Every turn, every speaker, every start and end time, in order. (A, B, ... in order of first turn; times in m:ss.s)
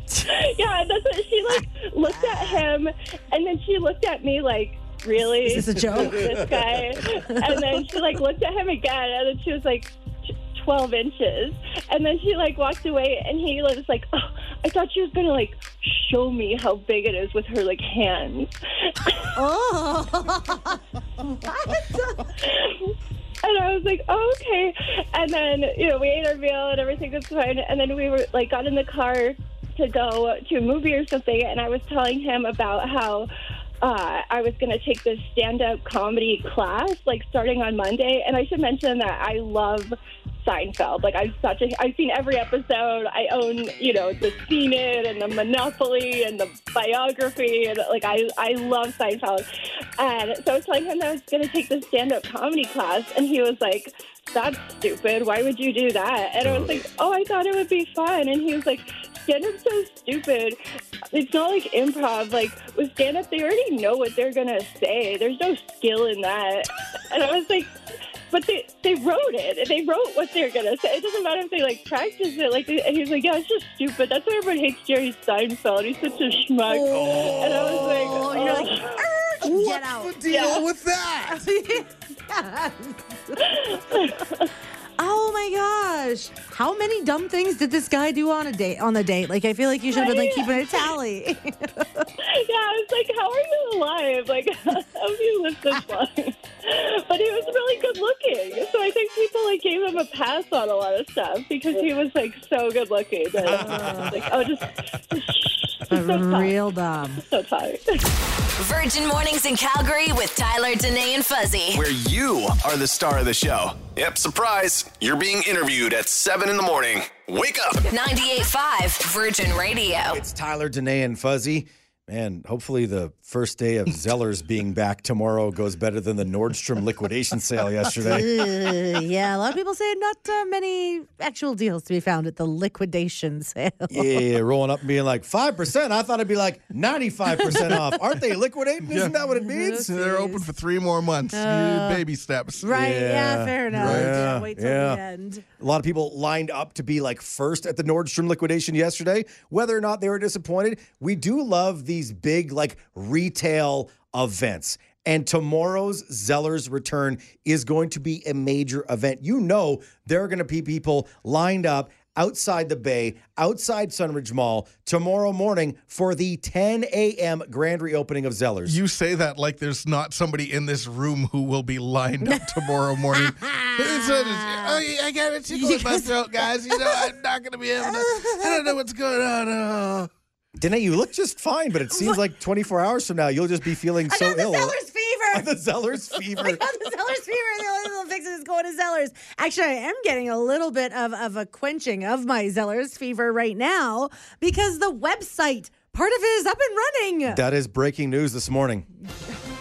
0:00.2-0:09.9 A
0:02.1-0:02.6 B
0:05.5-0:06.4 B
0:10.5-0:18.5 A
0:19.4-0:22.3 B
0:22.5-0:22.9 A
0:23.4-0:33.3 A
0:33.8-0:49.4 A
0:50.0-1:00.6 A
0:56.4-0:56.8 C
1:01.1-1:07.7 A
1:08.3-1:18.8 A
1:16.7-1:20.2 B
1:16.9-1:17.9 C
1:19.5-1:21.4 D
1:20.1-1:20.5 C
1:20.3-1:20.6 A
1:21.3-1:24.2 B
1:25.0-1:32.1 B
1:29.9-1:30.9 A
1:32.4-1:46.6 A
1:43.5-1:44.2 B
1:43.6-1:43.9 C
1:45.9-1:47.2 B
1:47.2-1:48.1 A
1:48.6-1:51.8 E
1:51.7-1:57.9 F
1:57.9-2:00.2 E
2:00.1-2:08.3 C
2:08.0-2:14.2 B
2:13.9-2:19.9 C
2:17.4-2:17.8 B
2:19.4-2:20.4 B
2:19.7-2:22.7 D
2:21.3-2:22.0 B
2:22.6-2:25.4 B
2:22.7-2:25.0 C
2:23.7-2:24.2 D
2:25.6-2:48.8 C
2:48.7-3:00.1 D
2:53.1-2:54.8 B
2:55.5-2:56.1 B
2:56.7-2:57.0 B
2:57.8-2:58.7 B
3:00.6-3:04.8 C
3:01.9-3:02.2 B
3:04.1-3:05.5 B
3:05.3-3:06.6 C
3:06.4-3:17.4 B
3:17.3-3:18.9 C